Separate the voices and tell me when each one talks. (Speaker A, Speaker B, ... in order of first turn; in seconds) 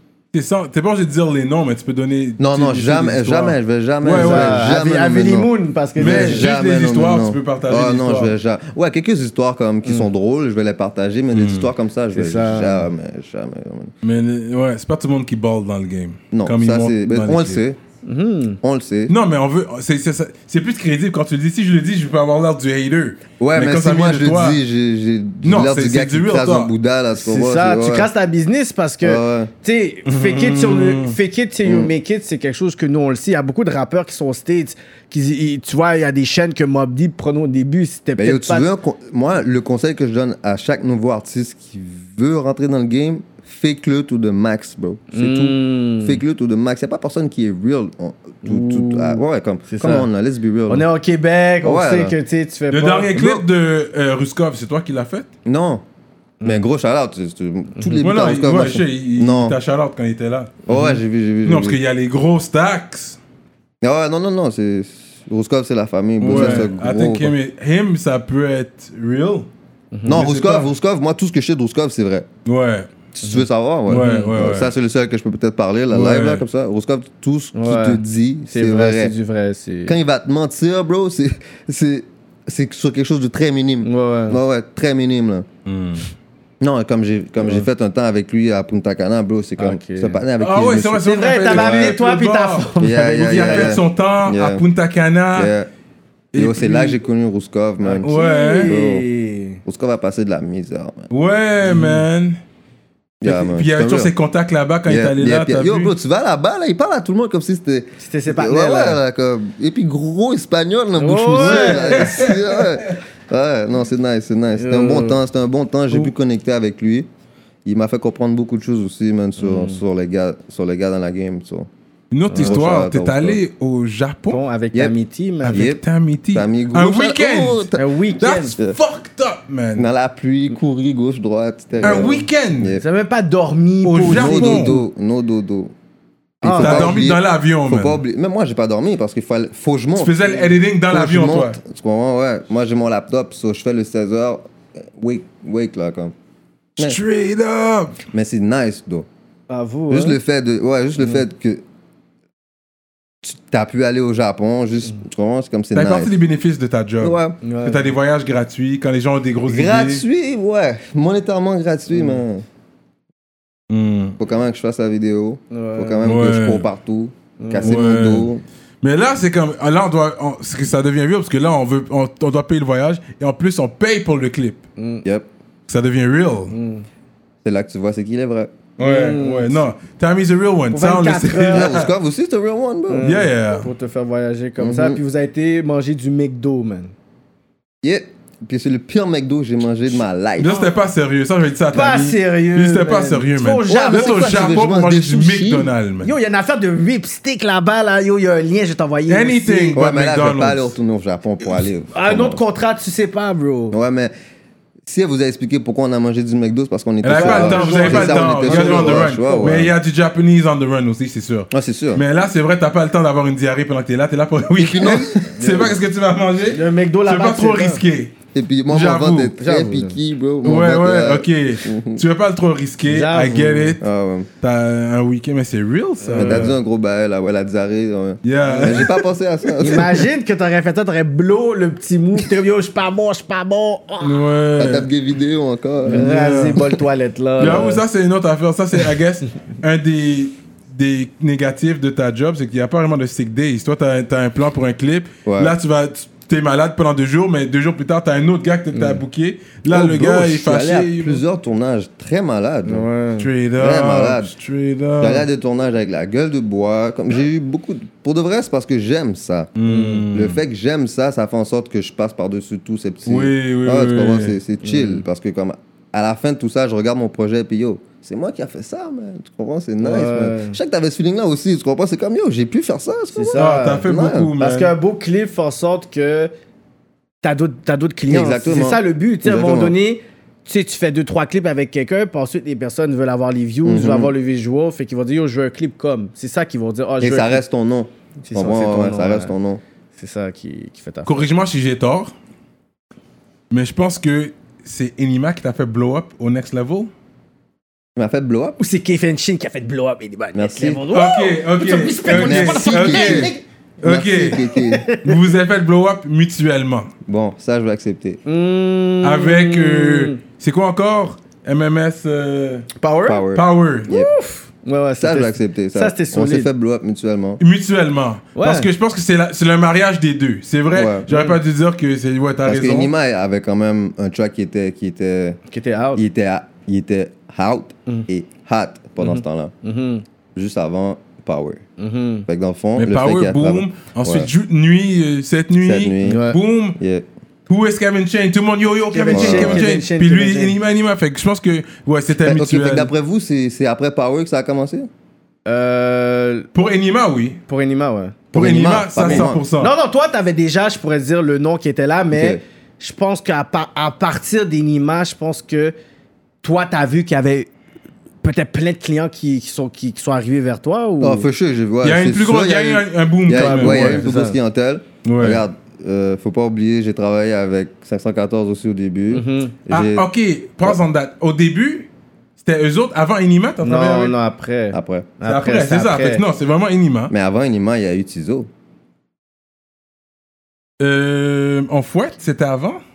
Speaker A: 0.3-4.7, 6.0-8.3, 11.3-11.7, 14.0-17.6, 19.1-24.6, 25.4-26.7, 30.1-31.2, 52.7-55.3, 58.0-60.6, 61.4-63.2, 66.2-69.5, 70.1-70.7, 72.5-72.9, 73.9-74.7, 75.9-76.4, 85.7-86.1, 90.4-95.5, 96.3-97.0, 98.0-98.7, 101.1-102.4, 103.2-105.9, 111.4-112.8, 122.1-124.4, 125.4-127.7, 128.2-129.9, 131.8-132.8, 133.8-134.8, 136.6-138.0, 140.0-141.6, 146.8-148.0, 155.8-160.0, 163.7-164.2, 166.0-166.7, 167.6-168.3, 168.8-174.6, 175.7-176.6, 178.8-181.9, 183.0-183.7, 190.4-196.1, 199.1-200.7, 207.0-218.2, 218.7-219.3, 220.4-223.8, 224.4-226.6, 228.2-229.0, 234.0-234.9, 235.9-236.6, 237.4-251.2, 253.2-255.2, 259.6-260.4, 263.1-264.4, 273.4-274.7, 291.1-292.1, 293.5-296.9, 300.9-304.5, 305.0-306.9, 309.0-312.7, 313.4-313.9, 317.4-322.9, 332.8-336.8, 337.5-342.9, 346.5-347.4, 348.3-349.7, 361.8-364.1, 365.1-365.4, 369.7-371.9, 372.4-374.1, 375.2-377.1, 380.8-382.8
Speaker B: 2.4-13.9, 16.3-17.8, 18.6-19.1, 23.4-28.1, 29.0-29.5, 31.6-31.9, 38.2-50.9, 51.6-52.1, 53.1-53.5, 55.5-55.8, 56.4-59.6, 60.7-61.8, 63.8-67.3, 70.1-72.3, 73.1-79.2, 79.9-85.5, 86.6-92.0, 92.8-94.6, 95.3-95.7, 96.3-98.1, 98.7-99.0, 99.7-101.1, 103.2-104.1, 104.8-117.1, 117.7-121.7, 122.3-123.4, 125.5-127.9, 129.8-132.8, 134.1-135.7, 136.4-146.1, 148.1-149.1, 149.9-151.6, 153.2-156.1, 157.0-157.4, 159.5-162.4, 164.2-168.4, 177.4-178.6, 181.5-183.1, 184.6-185.0, 187.8-190.5, 193.7-195.7, 199.7-202.4, 203.7-204.1, 204.9-209.7, 211.5-212.0, 214.5-215.8, 218.3-222.0, 223.8-224.3, 226.2-230.0, 234.6-236.6, 245.3-245.6, 249.7-252.9, 253.6-254.3, 255.0-259.5, 260.1-274.3, 278.1-279.8, 283.6-284.1, 287.0-289.6, 298.0-298.6, 300.4-300.9, 302.1-304.9, 307.1-308.2, 313.1-314.1, 315.0-317.4, 320.7-321.1, 322.4-325.4, 326.0-329.5, 330.4-331.6, 332.3-334.3, 335.5-336.3, 336.8-337.1, 339.1-339.6, 342.2-344.9, 348.3-349.4, 352.1-352.4, 361.0-370.1, 374.7-375.1, 377.1-378.5
Speaker C: 4.1-6.5, 9.8-10.1, 12.1-12.9, 18.0-18.6, 27.2-38.7, 45.1-46.2, 48.4-50.1, 50.7-53.1, 56.4-56.7, 57.8-58.1, 60.7-61.0, 66.3-66.7, 69.9-70.3, 73.2-74.4, 77.5-80.0, 83.8-84.4, 87.4-87.7, 89.6-90.2, 91.0-93.8, 97.8-99.6, 101.7-102.0, 108.0-109.0, 111.0-112.3, 114.6-115.2, 119.4-119.8, 122.3-122.6, 124.3-125.7, 127.8-128.6, 132.8-134.8, 136.4-137.0, 149.5-150.2, 157.4-157.9, 161.9-162.2, 165.5-166.1, 167.4-167.8, 174.8-175.0, 176.5-176.8, 178.8-179.7, 180.7-181.8, 182.9-186.9, 191.7-194.4, 196.0-199.8, 201.9-203.8, 207.1-209.6, 216.5-217.8, 219.4-220.0, 222.9-223.8, 226.0-226.5, 228.4-228.7, 229.6-234.3, 235.9-237.8, 248.7-249.0, 252.7-253.3, 259.6-260.1, 264.6-265.0, 269.8-270.6, 273.1-273.9, 274.4-276.3, 277.2-287.4, 288.2-289.3, 290.0-291.3, 298.6-303.4, 304.4-305.2, 308.3-310.2, 312.8-313.3, 313.9-316.5, 318.4-318.7, 321.1-321.4, 325.5-326.0, 329.0-330.0, 331.8-332.3, 336.0-336.4, 338.9-340.6, 345.5-346.5, 347.5-348.2, 349.0-355.8, 356.4-357.5, 358.2-361.3, 363.3-364.4, 369.1-369.6, 373.6-376.2